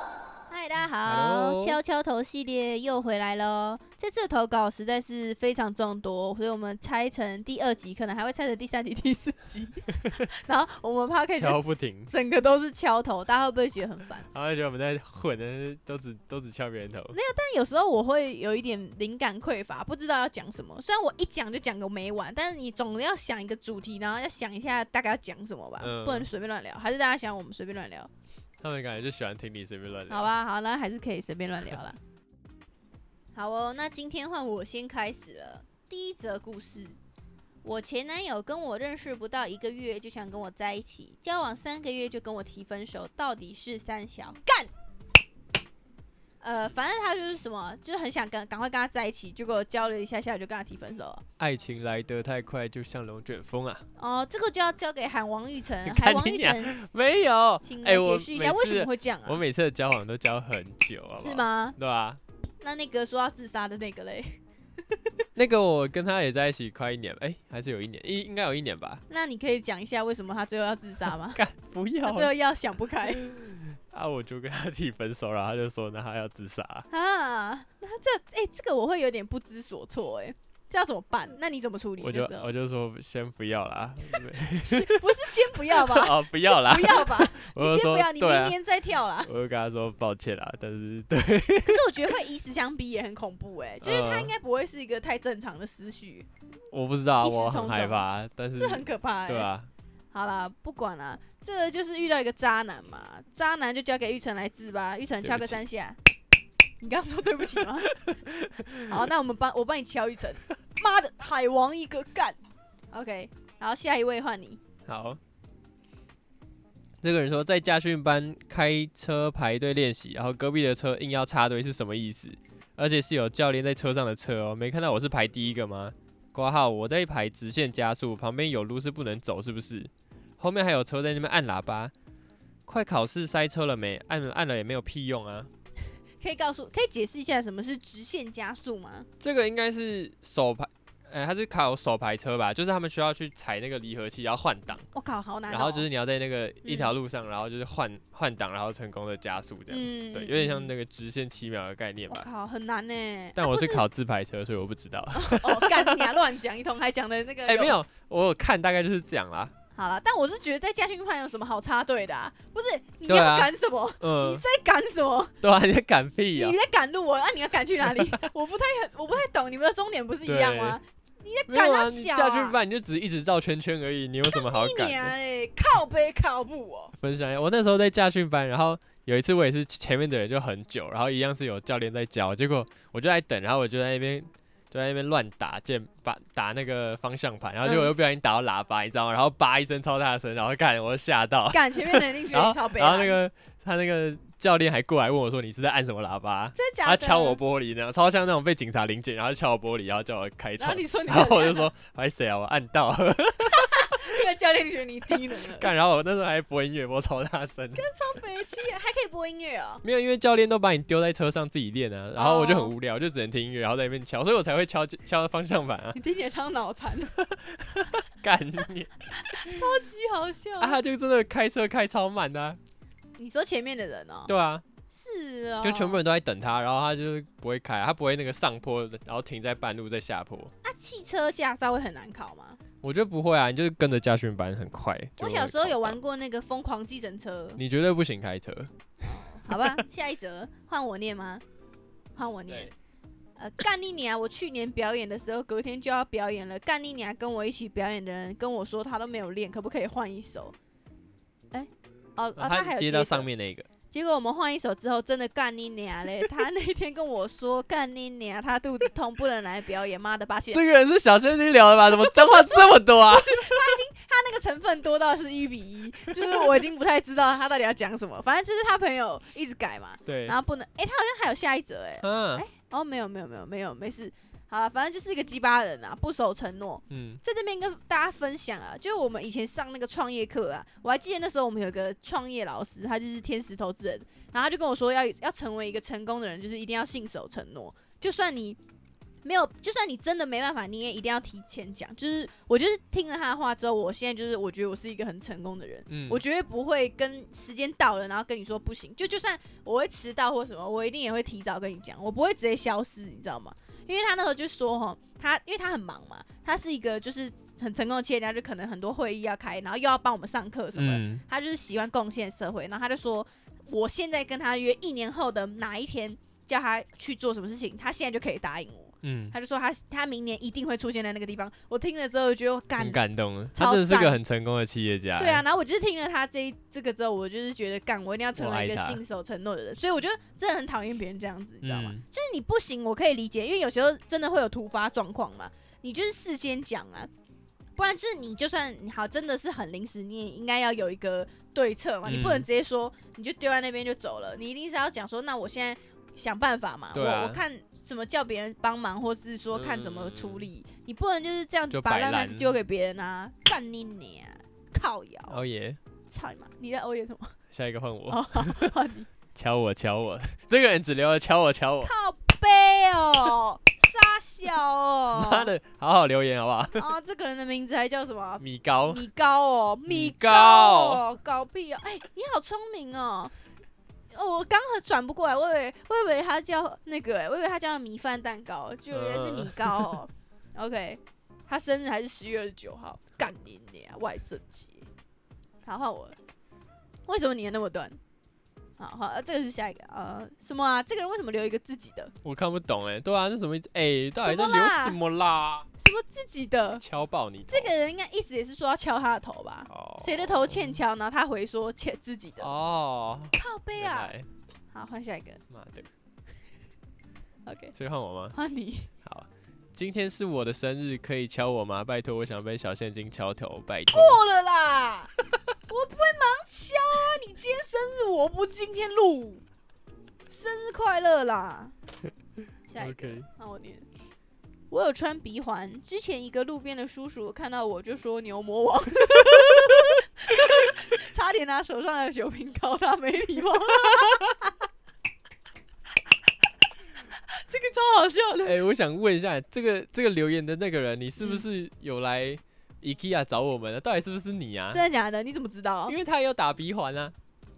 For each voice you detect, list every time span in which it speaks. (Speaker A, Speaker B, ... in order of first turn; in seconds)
Speaker A: 0.5-14.3, 17.1-28.1, 30.1-32.0, 33.3-37.0, 37.6-44.7, 46.4-51.2, 54.0-56.8, 57.6-59.4, 61.1-61.8, 62.6-64.4, 64.9-65.2, 69.1-71.4, 72.0-73.2, 76.9-82.5, 84.5-89.3, 91.6-96.3, 97.2-99.5, 100.1-106.0, 106.8-107.9, 108.8-112.4, 112.9-114.6, 136.2-139.1, 144.9-145.8, 146.6-146.9, 149.7-150.7, 152.1-153.8, 155.1-157.8, 159.7-165.3, 166.3-172.6, 174.3-176.9, 187.6-187.9, 191.5-193.2, 196.5-197.4, 200.6-201.7, 203.5-205.7, 207.7-209.8, 212.2-212.7, 215.9-217.2, 219.2-220.8, 223.2-224.3, 224.9-226.0, 230.6-232.6, 235.2-237.6, 239.0-241.4, 242.2-242.7, 243.4-250.5, 251.5-253.3, 253.9-260.6, 261.9-288.6, 289.2-323.0, 323.5-324.2, 325.2-337.1, 337.8-355.4, 356.1-357.4, 358.1-359.1, 361.8-365.5, 366.7-373.3, 374.1-384.9, 385.6-386.1, 387.1-388.0, 388.8-392.1, 394.2-395.0, 395.8-396.8, 397.5-402.5, 403.3-404.1, 404.7-405.4, 407.4-407.8, 408.3-408.9, 413.9-415.1, 415.7-419.4, 420.3-421.8, 422.7-423.9, 424.7-434.5, 437.3-438.6, 444.7-446.0
Speaker B: 1.0-1.8, 11.4-12.1, 14.3-17.2, 25.8-26.3, 28.6-30.3, 51.4-53.8, 55.8-62.2, 65.3-69.0, 71.2-72.3, 73.2-76.9, 82.0-88.6, 89.2-91.9, 93.8-94.3, 96.7-99.7, 105.2-105.6, 108.0-108.8, 114.9-115.2, 117.0-131.9, 132.7-135.5, 139.2-144.8, 145.5-152.3, 153.3-156.1, 157.4-159.5, 163.1-164.4, 165.4-166.6, 170.2-170.8, 171.5-175.1, 177.0-204.2, 205.1-207.8, 209.8-216.0, 217.2-219.6, 220.6-222.6, 224.3-224.6, 225.6-230.5, 232.8-236.0, 237.6-238.7, 239.4-239.8, 252.3-253.7, 260.5-263.8, 266.1-266.6, 270.1-270.4, 272.0-272.4, 276.9-277.2, 295.9-296.2, 310.8-311.2, 319.0-319.3, 322.8-325.4, 328.4-329.0, 331.6-332.0, 342.1-342.5, 346.9-347.4, 349.5-350.5, 351.7-352.6, 355.3-355.8, 357.5-358.7, 359.3-361.9, 365.1-366.9, 368.4-369.0, 369.9-371.0, 378.9-380.0, 392.2-395.7, 396.8-397.7, 399.7-400.8, 402.4-404.3, 405.5-405.9, 407.8-408.4, 409.0-414.2, 422.8-423.3, 438.4-444.8, 445.9-447.1